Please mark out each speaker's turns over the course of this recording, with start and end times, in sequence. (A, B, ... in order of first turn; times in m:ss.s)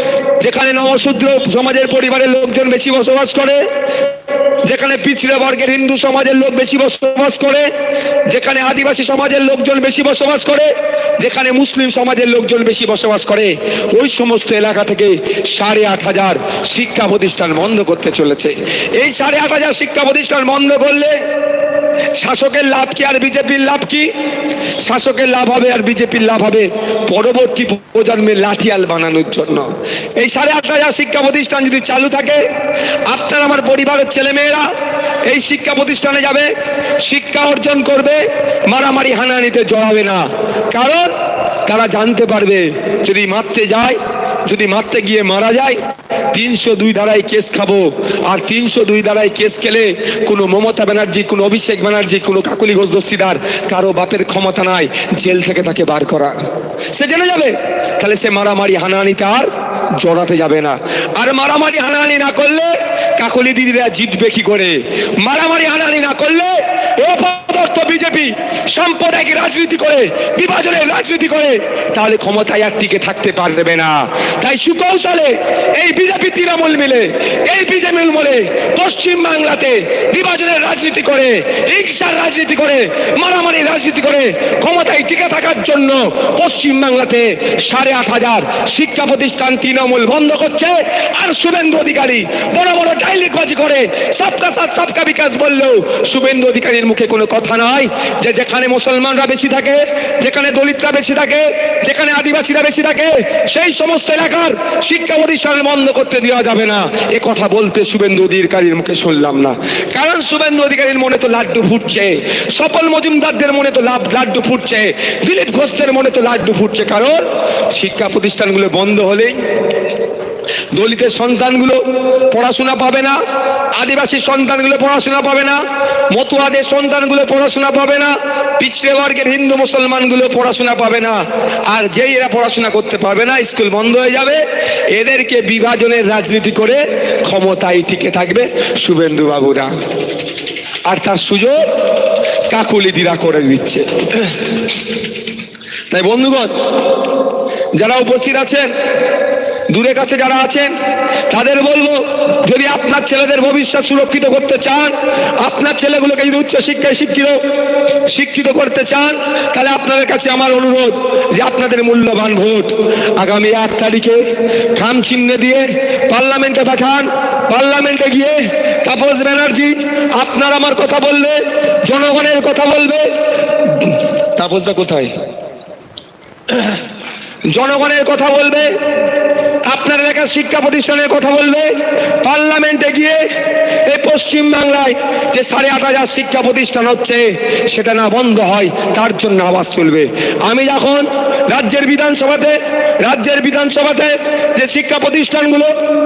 0:00.4-0:03.6 A
0:04.6-0:07.7 A
0:08.3-0:21.2 A
0:22.2-0:24.1 A
0:24.8-0:29.7 A
0:30.2-0:32.4 A
0:33.1-0:34.7 A
0:35.3-0:41.1 A
0:41.7-0:45.8 A
0:46.3-0:56.4 A
0:56.9-1:59.4 A
2:00.7-2:03.2 A
2:03.8-2:19.8 A
2:20.9-2:21.7 A
2:22.5-2:24.7 A
2:25.9-2:26.5 A
2:27.8-2:28.7 A
2:29.7-2:30.7 A
2:31.3-2:37.4 A
2:38.1-2:44.2 A
2:44.8-2:55.1 A
2:56.5-2:56.8 A
2:57.5-2:58.7 A
2:59.7-3:03.2 A
3:03.8-3:15.7 A